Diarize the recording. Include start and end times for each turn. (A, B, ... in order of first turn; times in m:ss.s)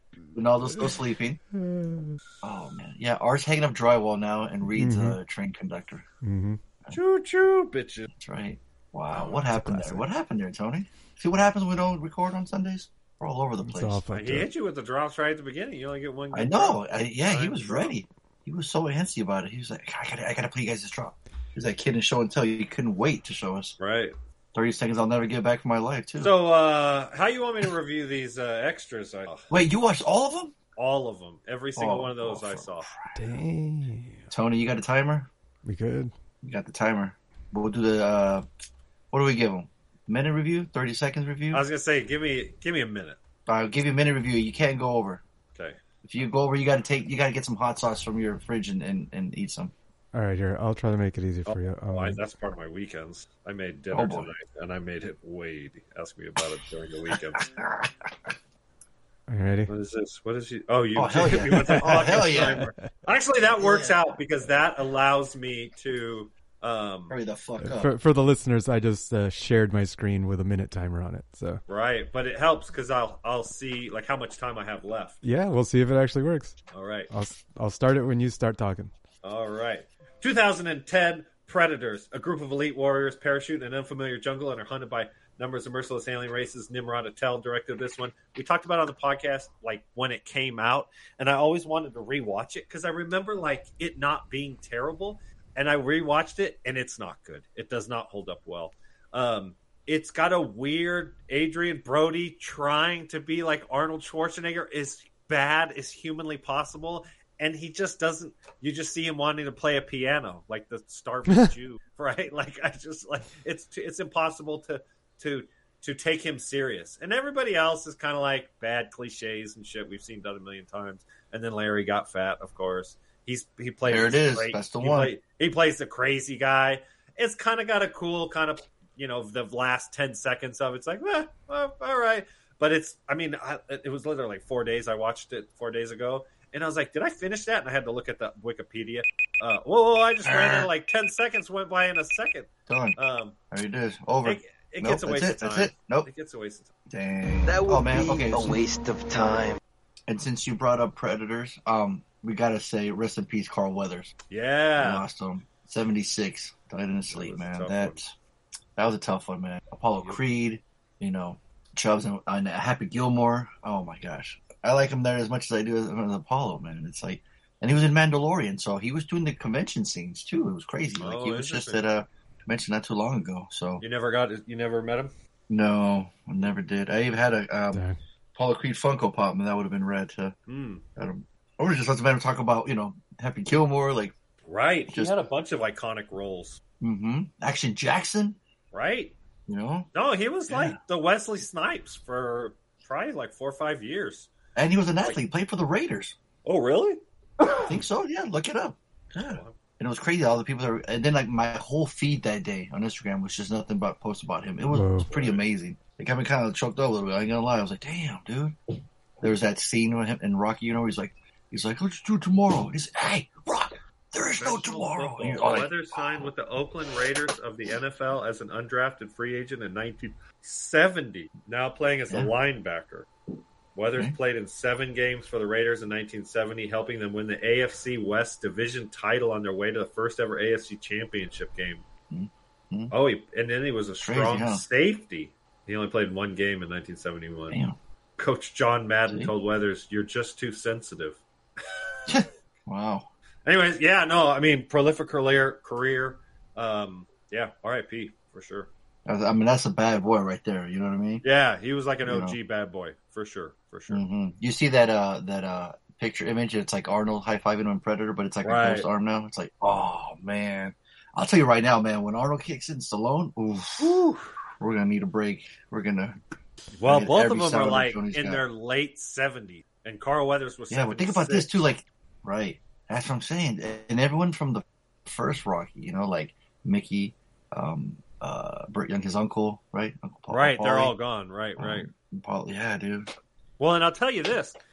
0:00.3-0:01.4 A
0:01.5-0:02.2 B
0:02.4-0:06.0 A
0:04.7-0:05.2 B
0:06.2-0:06.6 B
0:06.9-0:08.1 C
0:08.1-0:14.0 A
0:09.1-0:09.4 C
0:09.5-0:10.0 B
0:13.6-0:14.5 B
0:14.1-0:17.9 C
0:16.3-0:23.8 A
0:23.8-0:24.1 C
0:24.5-0:26.3 A
0:26.2-0:29.5 C
0:29.5-0:30.5 A
0:30.8-0:32.9 C
0:31.8-0:33.2 A
0:33.2-0:34.2 B
0:34.3-0:35.3 A
0:35.6-0:36.1 B
0:36.4-0:38.4 A
0:39.1-0:41.6 A
0:41.5-0:43.2 C
0:43.5-0:45.2 A
0:46.0-0:49.7 A
0:50.1-0:52.2 B
0:51.4-0:57.4 C
0:53.9-0:54.3 A
0:57.4-0:57.9 A
0:59.3-0:59.7 B
0:59.7-1:07.1 C
1:00.9-1:02.7 A
1:01.6-1:02.6 B
1:03.6-1:04.2 A
1:07.1-1:07.9 A
1:07.6-1:11.6 B
1:11.7-1:15.2 C
1:15.2-1:16.6 B
1:16.7-1:17.1 C
1:17.1-1:18.9 B
1:19.2-2:23.4 C
2:03.8-2:05.1 A
2:20.2-2:20.7 A
2:22.7-2:23.0 A
2:23.5-2:26.1 A
2:24.2-2:26.7 C
2:26.9-2:28.6 A
2:27.4-2:29.6 D
2:30.1-2:34.1 A
2:34.3-2:35.0 C
2:34.8-2:38.1 A
2:37.1-2:38.0 C
2:38.8-2:53.8 A
2:51.0-2:51.8 C
2:53.8-2:55.1 C
2:55.5-2:57.8 A
2:57.7-2:58.0 B
2:58.3-3:00.3 A
3:00.5-3:00.8 C
3:01.0-3:04.1 A
3:04.5-3:06.6 C
3:04.9-3:05.2 A
3:06.8-3:08.4 A
3:08.7-3:09.2 C
3:09.5-3:09.9 A
3:09.9-3:14.3 C
3:10.5-3:10.8 A
3:14.5-3:16.2 A
3:16.4-3:17.0 C
3:17.6-3:28.6 A
3:19.2-3:19.6 C
3:24.7-3:25.1 B
3:25.1-3:25.4 C
3:29.2-3:36.3 A
3:34.4-3:43.1 C
3:43.7-3:51.8 C
3:52.1-3:52.9 A
3:52.9-3:57.6 C
3:54.0-3:54.6 A
3:57.5-3:57.8 A
3:58.2-4:01.2 C
3:59.1-3:59.3 A
4:02.1-4:03.1 A
4:03.4-4:08.7 C
4:09.0-4:11.2 A
4:11.2-4:14.0 C
4:12.0-4:12.4 A
4:13.9-4:24.0 A
4:18.4-4:18.9 C
4:23.8-4:24.3 C
4:24.6-4:26.2 A
4:26.8-4:31.6 C
4:26.8-4:28.4 A
4:30.7-4:40.9 A
4:40.3-4:41.9 C
4:41.6-4:43.1 A
4:43.6-4:44.6 C